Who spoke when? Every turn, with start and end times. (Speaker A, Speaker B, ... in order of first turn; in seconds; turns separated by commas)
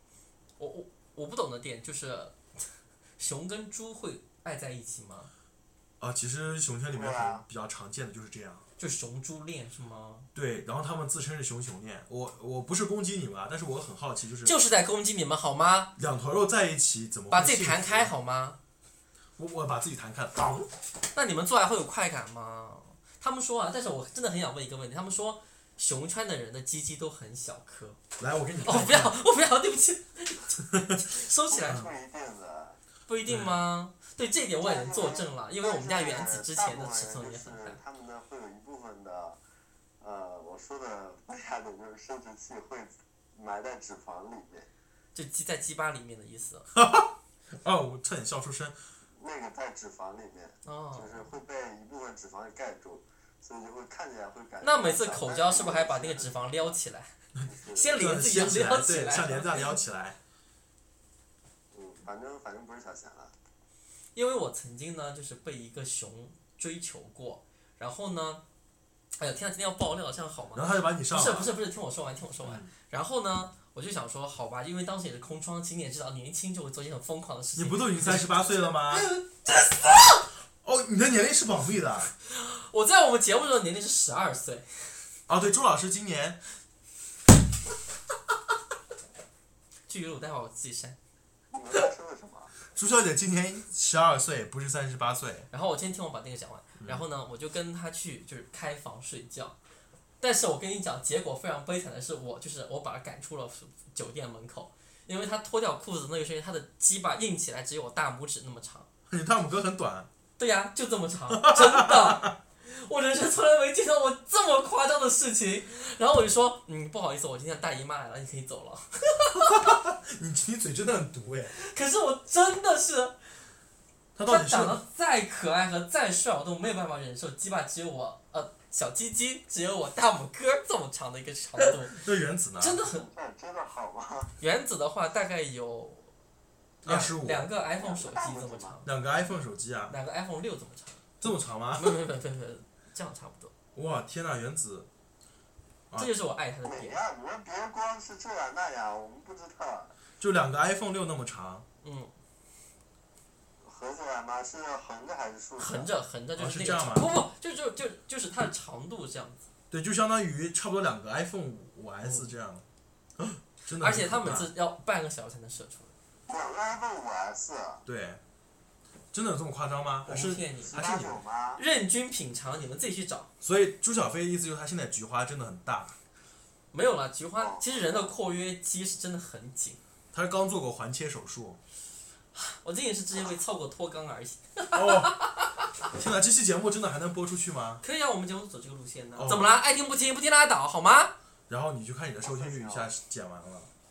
Speaker A: 0.6-2.4, Speaker A: 3.2-5.3, Speaker B: 6.0-8.6, Speaker C: 6.9-7.4, Speaker A: 8.8-10.3, Speaker B: 10.3-14.5, Speaker A: 14.4-15.9, Speaker B: 16.0-18.1, Speaker A: 17.3-18.6, Speaker B: 19.4-20.7, Speaker A: 20.4-28.0, Speaker B: 28.2-29.2, Speaker A: 28.6-31.9, Speaker C: 31.5-32.8, Speaker A: 33.1-37.8, Speaker B: 33.3-33.6, Speaker C: 34.6-39.4, Speaker C: 40.0-44.7, Speaker A: 45.1-46.6, Speaker B: 46.7-48.8, Speaker C: 49.1-56.8, Speaker A: 50.6-51.3, Speaker A: 54.6-57.1, Speaker B: 57.4-60.2, Speaker C: 57.5-58.0, Speaker A: 57.7-59.8, Speaker C: 61.7-63.3, Speaker A: 64.1-68.4, Speaker A: 69.2-80.2, Speaker B: 70.5-71.5, Speaker B: 72.4-72.7, Speaker B: 77.5-79.1, Speaker B: 80.6-82.1, Speaker A: 82.2-84.7, Speaker B: 85.3-86.4, Speaker A: 89.9-91.0, Speaker C: 91.5-92.5, Speaker B: 92.7-95.5, Speaker A: 95.5-99.5, Speaker A: 100.2-108.9, Speaker B: 109.1-110.1, Speaker A: 110.4-119.5, Speaker B: 111.3-112.3, Speaker B: 119.4-121.5, Speaker A: 121.5-123.2, Speaker B: 124.1-124.8, Speaker A: 124.2-132.0, Speaker B: 131.9-132.8, Speaker A: 132.6-133.1, Speaker C: 132.8-134.3, Speaker A: 134.4-136.1, Speaker A: 136.8-138.9, Speaker B: 136.8-137.5, Speaker C: 137.8-138.8, Speaker B: 138.8-139.9, Speaker A: 139.9-143.5, Speaker B: 141.2-141.9, Speaker B: 143.7-144.9, Speaker A: 145.9-147.0, Speaker C: 146.6-149.9, Speaker B: 150.2-151.7, Speaker A: 151.8-152.1, Speaker C: 153.6-155.9, Speaker A: 155.6-159.4, Speaker B: 156.4-157.2, Speaker B: 159.7-162.7, Speaker A: 162.0-162.3, Speaker B: 163.2-164.5, Speaker A: 163.8-165.9, Speaker C: 166.3-167.8, Speaker B: 167.8-168.2, Speaker B: 169.1-171.2, Speaker A: 170.0-170.8, Speaker C: 170.7-171.6, Speaker A: 171.6-173.3, Speaker B: 173.4-175.9, Speaker A: 176.7-179.8, Speaker C: 177.4-178.1, Speaker B: 180.1-181.6, Speaker A: 182.3-185.5, Speaker B: 184.7-185.2, Speaker B: 185.9-187.8, Speaker A: 187.8-191.1, Speaker B: 189.1-189.5, Speaker B: 191.5-193.7, Speaker C: 192.2-192.9